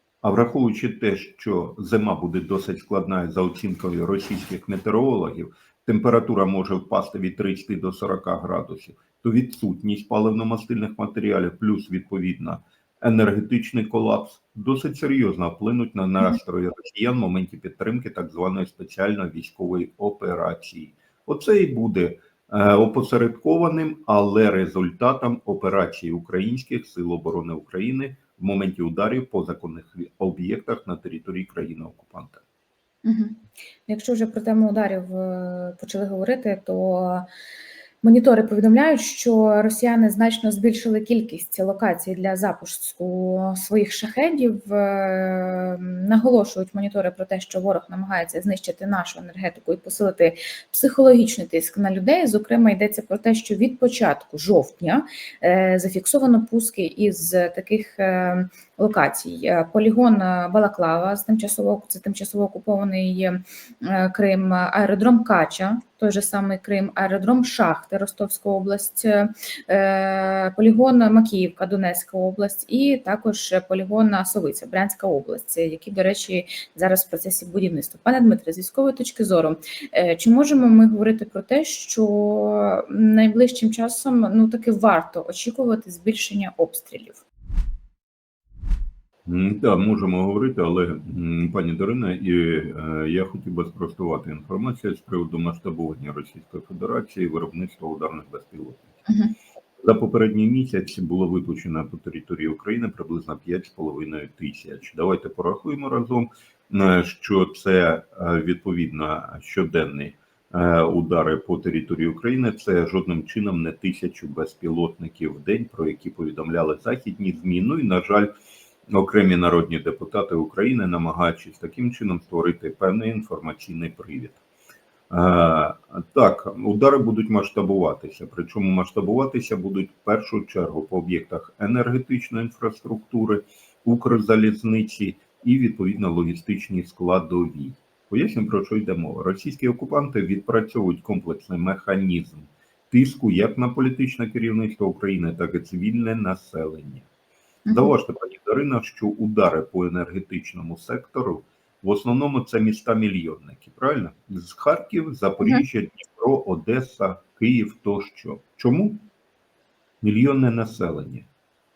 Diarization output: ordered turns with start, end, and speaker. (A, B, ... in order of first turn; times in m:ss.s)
0:00.2-0:32.4 A
0:33.0-0:37.3 B
0:38.0-1:27.2 B
1:29.2-1:39.0 A
1:39.1-1:39.3 B
1:39.8-1:58.3 A
1:58.9-2:04.4 A
2:05.1-2:27.1 A
2:27.6-2:27.9 B
2:27.7-2:39.0 A
2:40.0-2:41.3 A